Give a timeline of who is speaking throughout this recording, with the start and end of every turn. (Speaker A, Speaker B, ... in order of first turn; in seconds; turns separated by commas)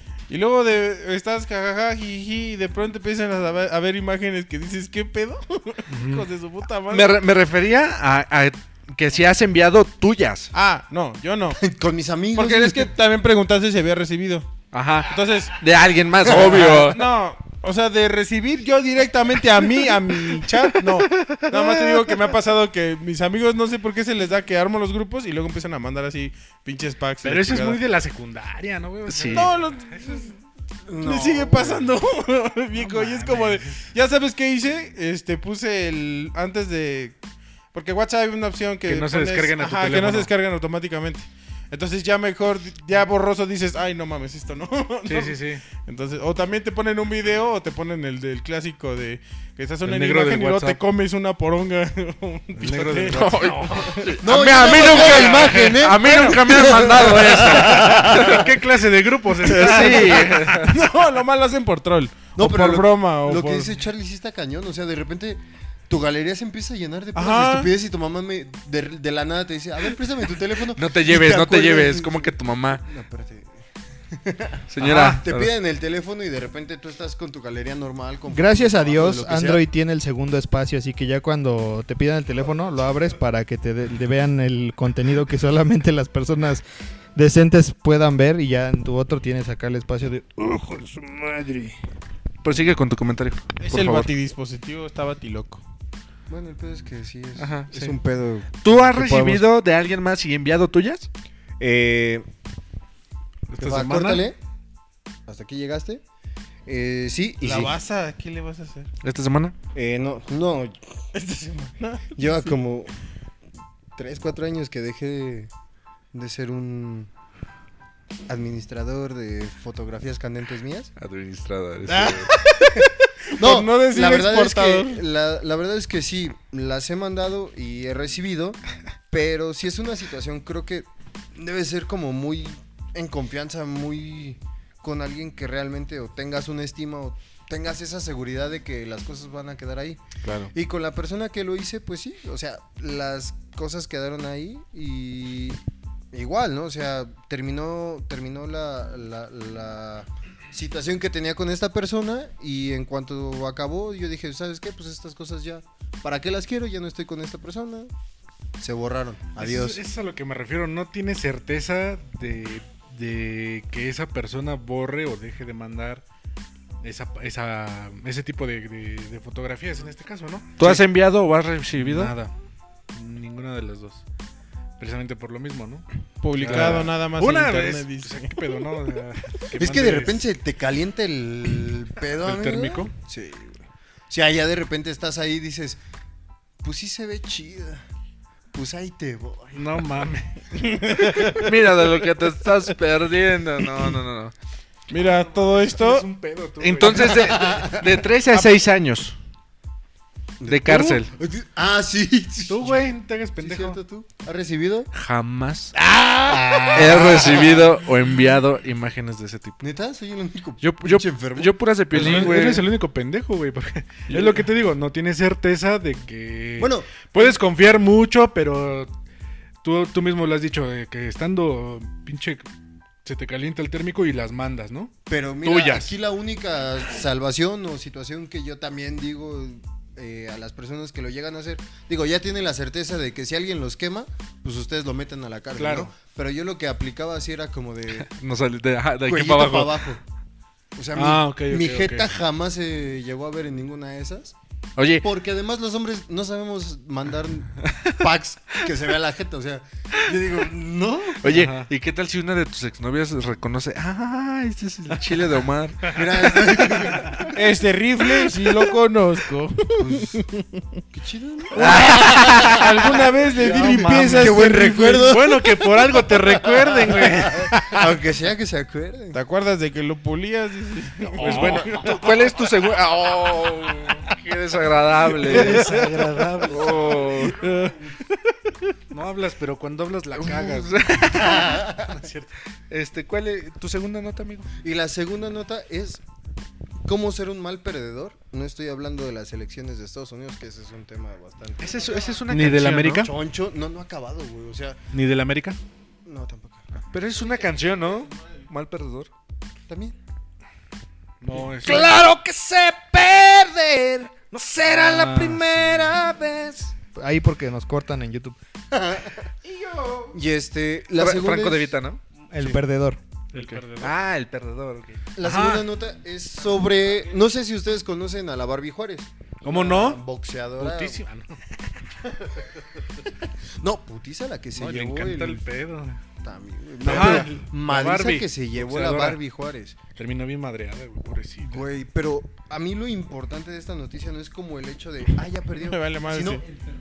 Speaker A: 0.3-7.2, Speaker B: 5.9-6.3, Speaker C: 6.9-10.5, Speaker A: 10.5-11.6, Speaker D: 11.6-12.9, Speaker A: 12.3-14.5, Speaker C: 14.7-17.1, Speaker A: 15.1-15.6, Speaker D: 16.2-16.9, Speaker A: 16.6-27.8, Speaker C: 21.2-21.7, Speaker B: 27.2-30.2, Speaker C: 29.1-29.5, Speaker A: 29.3-30.4, Speaker D: 30.9-31.9, Speaker A: 31.0-37.1, Speaker B: 32.8-33.9, Speaker A: 37.7-54.1, Speaker B: 38.9-40.3, Speaker B: 45.1-45.6, Speaker B: 49.8-50.8, Speaker B: 52.6-55.8, Speaker C: 53.1-58.5, Speaker D: 54.2-58.5, Speaker B: 57.6-60.8, Speaker C: 59.4-60.7, Speaker D: 59.5-60.3, Speaker A: 60.5-63.7, Speaker D: 62.4-73.6, Speaker A: 67.1-67.7, Speaker C: 70.8-72.9, Speaker D: 74.1-79.6, Speaker C: 74.7-75.5, Speaker B: 74.8-75.2, Speaker E: 78.3-91.8, Speaker C: 92.4-94.1, Speaker A: 93.6-95.6, Speaker D: 96.3-99.4, Speaker C: 97.4-98.0, Speaker C: 98.6-101.1, Speaker D: 101.6-102.3, Speaker B: 103.5-104.3, Speaker D: 103.6-104.4, Speaker D: 105.3-106.0, Speaker D: 106.7-107.8, Speaker A: 107.4-108.9, Speaker C: 109.0-109.5, Speaker D: 109.7-112.9, Speaker A: 111.8-112.2, Speaker D: 114.0-115.5, Speaker D: 116.1-117.1, Speaker D: 118.3-120.9, Speaker C: 121.0-122.3, Speaker A: 121.9-125.0, Speaker D: 122.8-128.6, Speaker D: 129.1-140.0, Speaker C: 140.2-140.5, Speaker D: 140.5-157.9, Speaker D: 158.6-159.8, Speaker B: 159.4-166.0, Speaker B: 166.8-170.8, Speaker C: 170.6-172.1, Speaker B: 171.8-172.3, Speaker B: 172.9-174.0, Speaker B: 174.8-175.9, Speaker A: 176.2-178.4, Speaker B: 176.4-180.3, Speaker C: 176.4-176.8, Speaker D: 179.6-185.8, Speaker B: 182.2-182.9, Speaker D: 186.6-187.8, Speaker D: 188.5-189.8, Speaker B: 189.5-191.6, Speaker C: 191.0-194.3, Speaker A: 194.9-196.1, Speaker B: 195.0-197.8, Speaker C: 196.6-199.1, Speaker D: 197.1-197.9, Speaker D: 200.4-202.8, Speaker C: 200.5-201.1, Speaker B: 202.5-203.8, Speaker D: 203.4-204.9, Speaker C: 204.9-205.8, Speaker D: 206.2-207.8, Speaker C: 206.7-209.6, Speaker D: 209.6-212.5, Speaker C: 210.6-212.7, Speaker B: 211.9-218.9, Speaker C: 214.1-214.4, Speaker D: 216.6-217.4, Speaker B: 219.6-222.5, Speaker B: 223.0-224.9, Speaker D: 225.1-238.1, Speaker B: 225.4-225.9, Speaker B: 235.6-235.9, Speaker C: 237.9-239.9, Speaker D: 239.1-240.0, Speaker D: 240.8-244.3, Speaker B: 240.9-242.1, Speaker C: 244.8-245.1, Speaker D: 245.0-251.2, Speaker C: 251.2-256.4, Speaker B: 251.3-251.7, Speaker D: 255.9-257.4, Speaker A: 257.3-260.2, Speaker D: 259.8-260.2, Speaker D: 260.9-269.2, Speaker A: 261.5-265.1, Speaker C: 261.6-262.4, Speaker B: 263.5-267.9, Speaker A: 269.1-271.6, Speaker B: 271.1-272.3, Speaker C: 271.2-277.4, Speaker B: 275.1-277.9, Speaker D: 275.3-277.3, Speaker B: 278.9-282.4, Speaker C: 280.1-281.6, Speaker D: 281.2-282.0, Speaker C: 282.7-284.5, Speaker D: 284.6-286.0, Speaker D: 286.9-292.3, Speaker C: 291.6-293.1, Speaker B: 292.3-293.1, Speaker D: 292.9-294.8, Speaker B: 294.9-295.6, Speaker D: 296.1-296.7, Speaker C: 296.9-299.1, Speaker D: 299.7-299.9, Speaker B: 301.2-302.0, Speaker E: 301.6-308.4, Speaker B: 304.6-306.0, Speaker D: 308.7-309.3, Speaker B: 309.6-310.0, Speaker D: 310.1-311.8, Speaker C: 310.9-312.0, Speaker E: 312.3-313.0, Speaker B: 313.3-313.9, Speaker C: 313.4-315.0, Speaker D: 315.1-321.0, Speaker B: 315.2-315.7, Speaker B: 319.4-320.0, Speaker B: 320.6-321.5, Speaker D: 323.6-325.4, Speaker B: 324.6-326.0, Speaker D: 326.2-329.8, Speaker B: 326.8-329.2, Speaker B: 329.9-331.7, Speaker D: 331.4-336.4, Speaker A: 335.6-336.4